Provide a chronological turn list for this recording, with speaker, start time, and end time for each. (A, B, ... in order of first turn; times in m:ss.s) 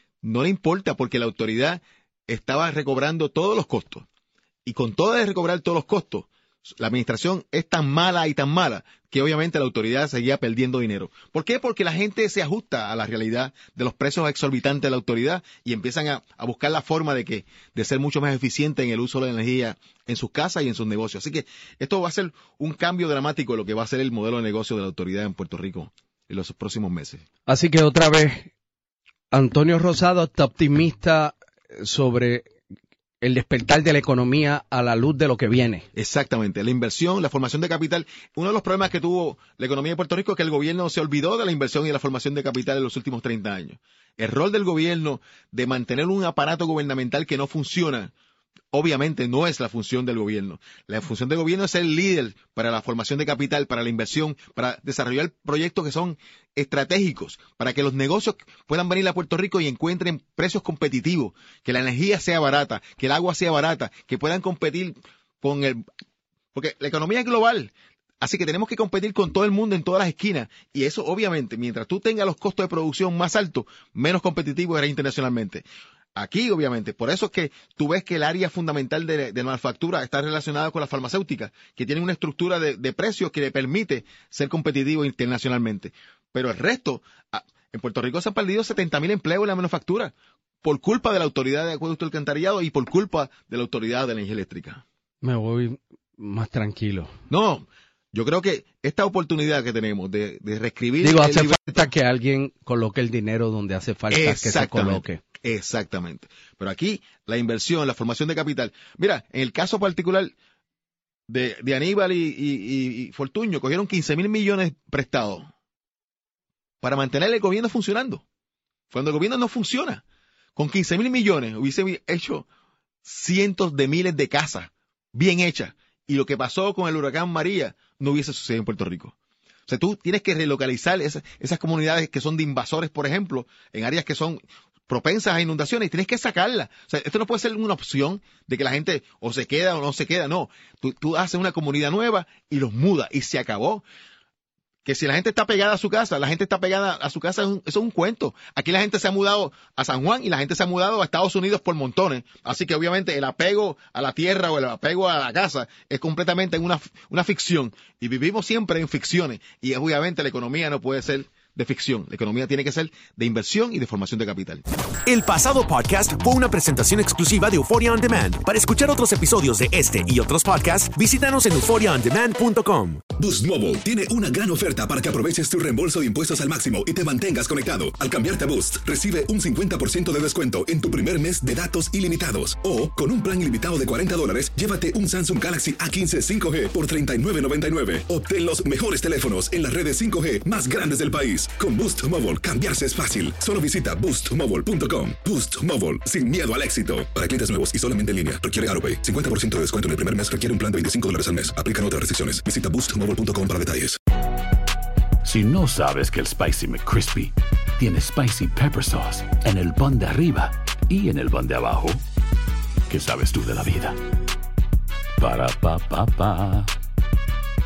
0:00.2-0:04.0 A
0:04.6-0:27.2 A
0:27.4-0:28.5 B
0:29.3-0:32.5 B
0:33.2-0:35.9 B
0:35.9-0:48.1 A
0:48.7-1:05.8 A
1:06.5-1:34.8 A
1:35.2-1:37.1 B
1:37.3-1:41.6 A
1:41.0-1:45.2 B
1:44.1-1:50.3 A
1:51.3-1:55.5 A
1:56.8-1:58.2 A
1:58.9-2:00.0 A
2:00.6-2:02.4 A
2:03.0-2:09.1 A
2:09.7-2:23.8 A
2:24.8-2:44.6 A
2:45.0-2:53.0 C
2:53.2-3:24.0 D
3:25.2-3:32.0 E
3:32.9-3:34.0 E
3:35.2-3:36.7 E